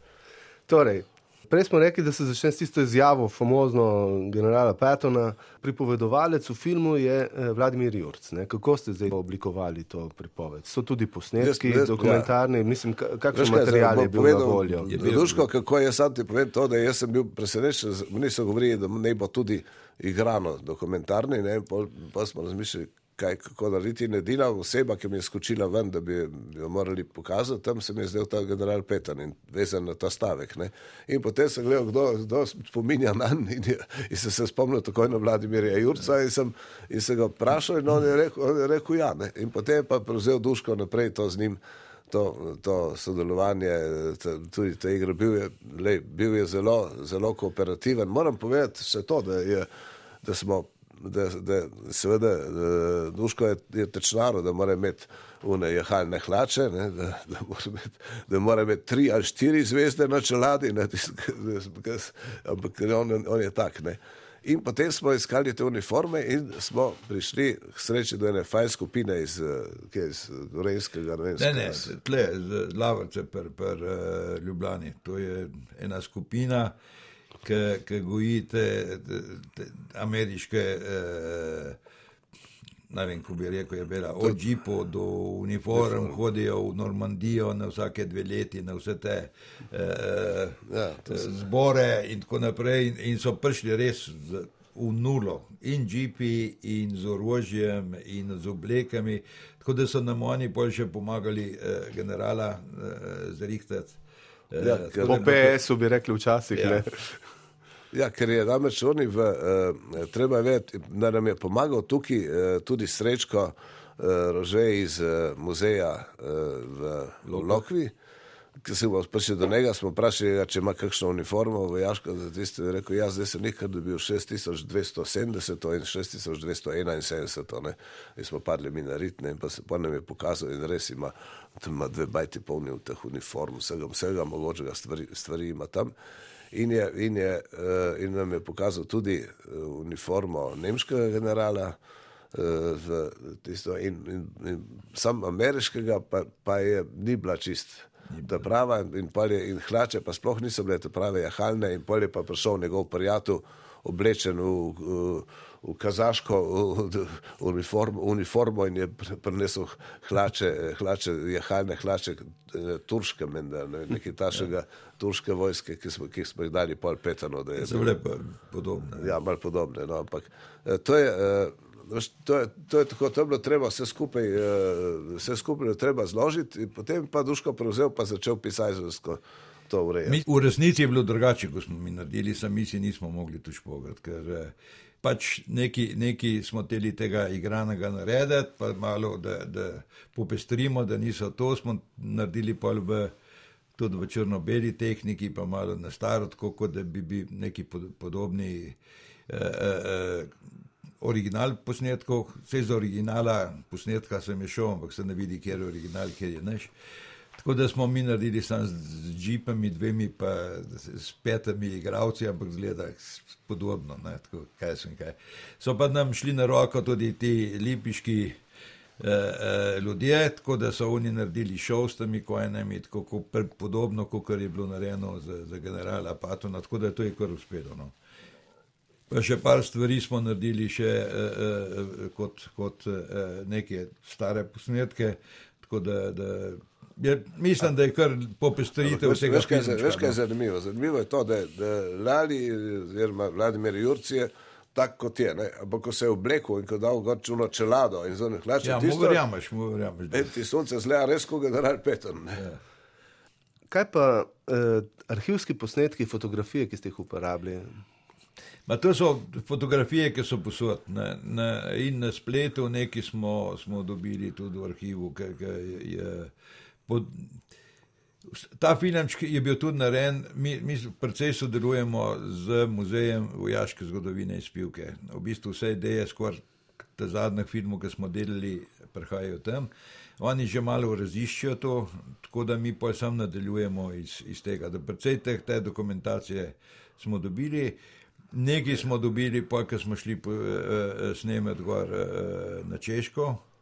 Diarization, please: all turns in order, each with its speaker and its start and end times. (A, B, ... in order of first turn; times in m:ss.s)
0:00.7-0:14.9 A
0:11.4-0:12.3 B
0:13.3-0:49.7 B
0:14.9-0:15.5 C
0:50.2-1:11.9 B
1:11.4-1:16.8 C
1:17.4-1:21.8 C
1:22.9-1:44.0 C
1:25.8-1:26.2 B
1:30.7-1:31.3 B
1:44.5-1:45.6 C
1:44.6-1:45.3 B
1:45.1-1:47.2 A
1:46.5-1:46.8 C
1:47.9-1:57.9 B
1:57.2-1:57.6 C
1:58.6-2:15.9 B
2:16.5-2:21.8 B
2:22.3-2:47.9 B
2:28.1-2:28.4 C
2:47.6-2:49.1 C
2:49.0-3:00.2 B
3:00.1-3:13.1 C
3:13.8-3:18.8 C
3:19.3-3:20.3 C
3:21.0-3:26.7 C
3:27.4-3:38.4 C
3:39.0-3:47.9 C
3:49.1-4:00.2 C
3:58.8-4:09.2 B
4:08.6-4:10.3 C
4:10.1-4:12.4 B
4:13.7-4:17.8 A
4:18.7-4:26.3 C
4:26.9-4:27.4 C
4:28.3-4:36.4 C
4:37.0-4:47.8 C
4:48.3-4:53.4 C